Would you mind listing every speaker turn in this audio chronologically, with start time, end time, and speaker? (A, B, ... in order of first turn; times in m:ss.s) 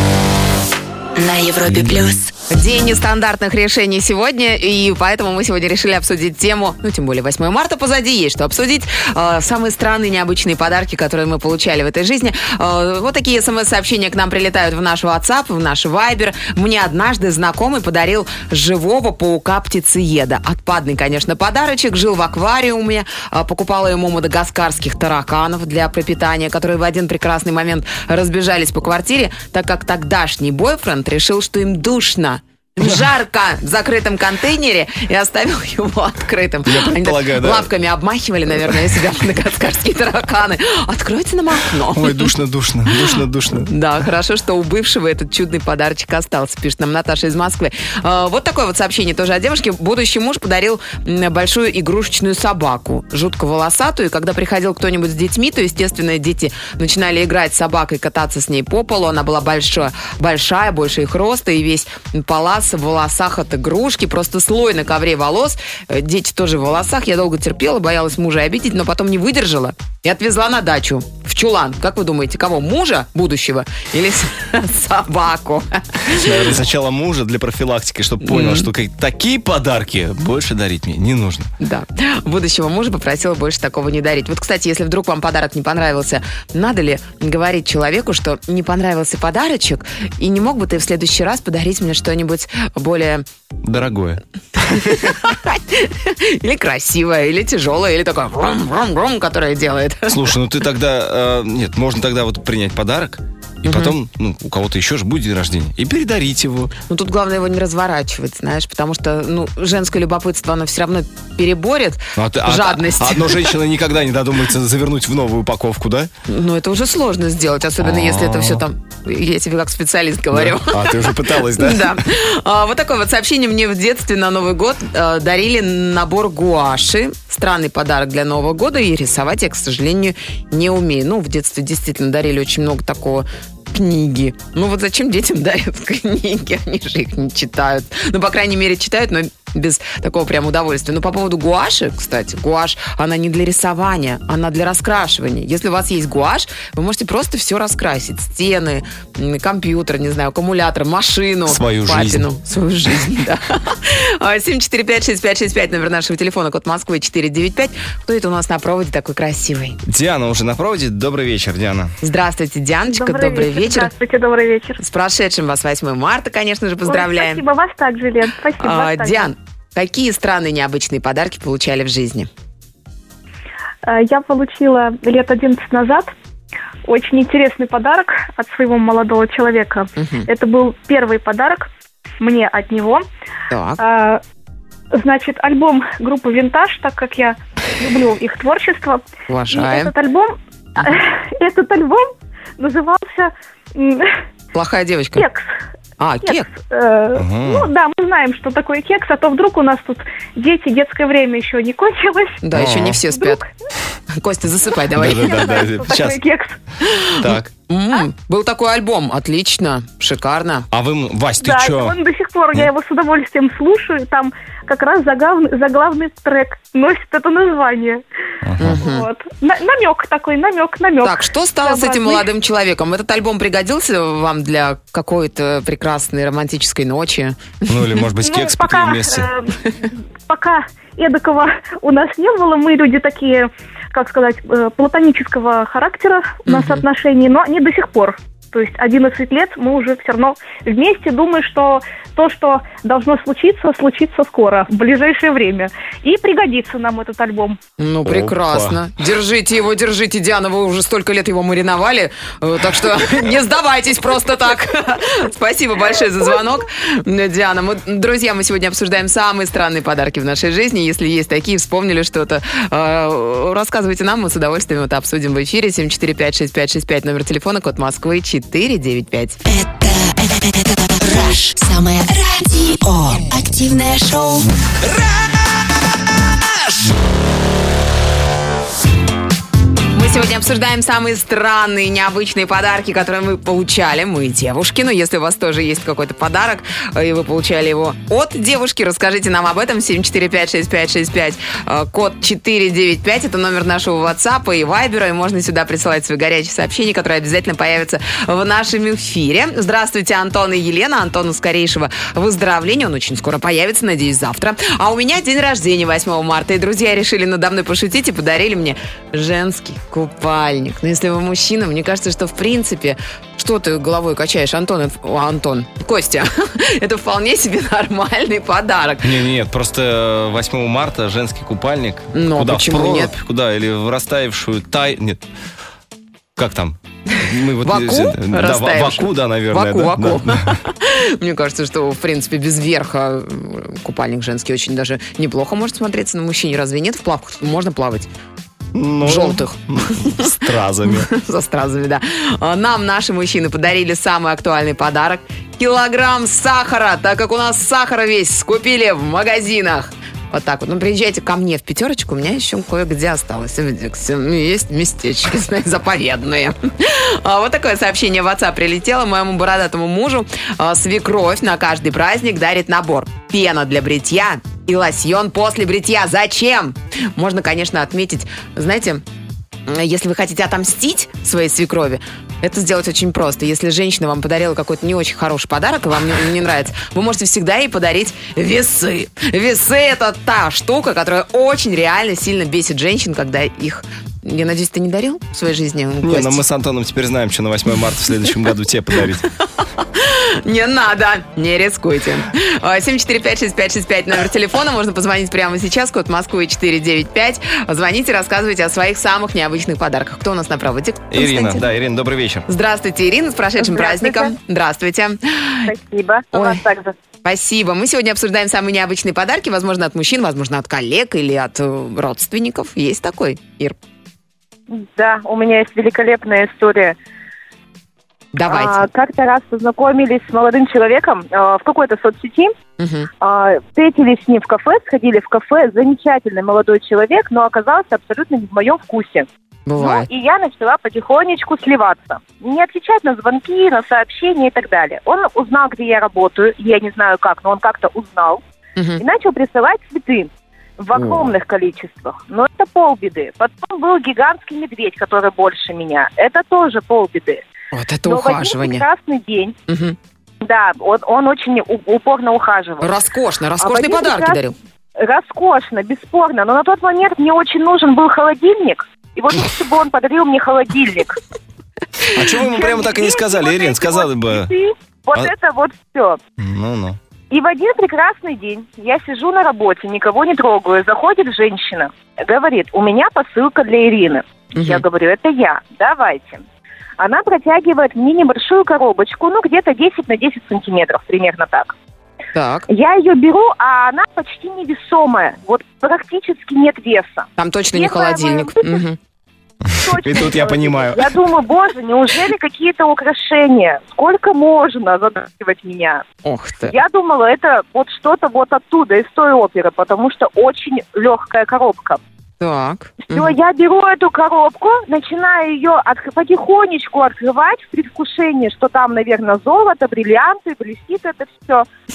0:01.2-0:02.3 A
0:02.5-0:42.3 B
0:36.6-0:37.7 C
0:38.5-0:38.8 C
0:41.9-0:43.7 C
0:42.9-1:16.5 B
1:16.1-1:21.5 C
1:18.2-1:18.7 B
1:21.6-1:33.2 B
1:33.6-1:35.1 C
1:34.7-1:40.3 B
1:40.1-1:46.7 C
1:43.7-1:43.9 B
1:46.9-1:53.5 B
1:52.2-1:56.1 C
1:56.3-2:39.8 B
1:57.8-1:58.6 C
2:00.3-2:02.0 C
2:31.5-2:32.3 C
2:39.8-2:41.9 C
2:42.0-2:43.9 B
2:42.9-2:44.8 D
2:44.8-2:47.4 B
2:46.8-2:49.3 D
2:48.6-2:52.3 B
2:53.8-2:56.1 D
2:56.8-3:01.7 D
3:00.0-3:00.3 B
3:02.2-3:03.0 D
3:03.5-3:03.8 B
3:03.8-3:04.2 D
3:04.9-3:14.1 D
3:09.3-3:09.9 B
3:14.5-3:15.3 B
3:15.1-3:15.5 D
3:16.0-3:16.5 B
3:16.2-3:23.4 D
3:17.1-3:17.7 C
3:22.4-3:23.4 B
3:22.5-3:23.0 C
3:24.1-3:25.4 B
3:25.0-3:26.2 C
3:25.0-3:26.5 D
3:26.8-3:30.7 B
3:27.2-3:27.5 C
3:30.7-3:32.0 C
3:31.4-3:38.0 D
3:38.4-3:38.8 C
3:38.6-3:39.1 B
3:38.6-3:42.2 D
3:41.0-3:48.0 B
3:47.7-3:49.3 C
3:48.2-4:07.6 D
3:56.5-3:56.8 B
4:07.8-4:29.4 B
4:08.0-4:08.8 C
4:29.4-4:34.5 A
4:39.9-5:19.1 B
5:19.0-5:25.2 C
5:22.1-5:23.1 B
5:26.4-5:30.6 C
5:27.6-5:38.1 B
5:38.7-5:41.1 C
5:39.0-6:09.0 B
6:09.7-6:26.4 B
6:26.0-6:29.2 C
6:29.8-6:41.6 B
6:41.1-6:42.4 C
6:42.5-6:45.7 B
6:43.6-6:44.4 E
6:45.7-6:46.9 E
6:46.3-6:46.6 B
6:47.2-6:53.8 B
6:54.7-6:57.0 E
6:58.3-6:58.9 B
6:58.5-7:02.5 E
7:02.8-7:03.1 B
7:03.2-7:09.3 E
7:09.7-7:10.1 B
7:09.8-7:18.4 E
7:18.8-7:19.0 B
7:19.0-7:27.4 E
7:20.9-7:21.3 B
7:27.7-7:28.8 B
7:28.1-7:29.5 E
7:29.7-7:30.0 B
7:30.4-7:32.9 E
7:32.8-7:34.5 B
7:33.6-7:34.4 E
7:35.0-7:41.2 E
7:42.1-7:44.5 C
7:42.4-7:46.2 E
7:46.4-7:47.0 C
7:47.3-7:56.4 E
7:54.6-7:54.8 B
7:57.0-8:01.7 E
8:02.3-8:02.7 B
8:02.7-8:08.8 E
8:07.4-8:09.0 B
8:09.7-8:11.1 C
8:09.7-8:16.0 E
8:16.2-8:16.8 B
8:16.7-8:22.0 E
8:22.4-8:23.3 B
8:23.1-8:31.6 E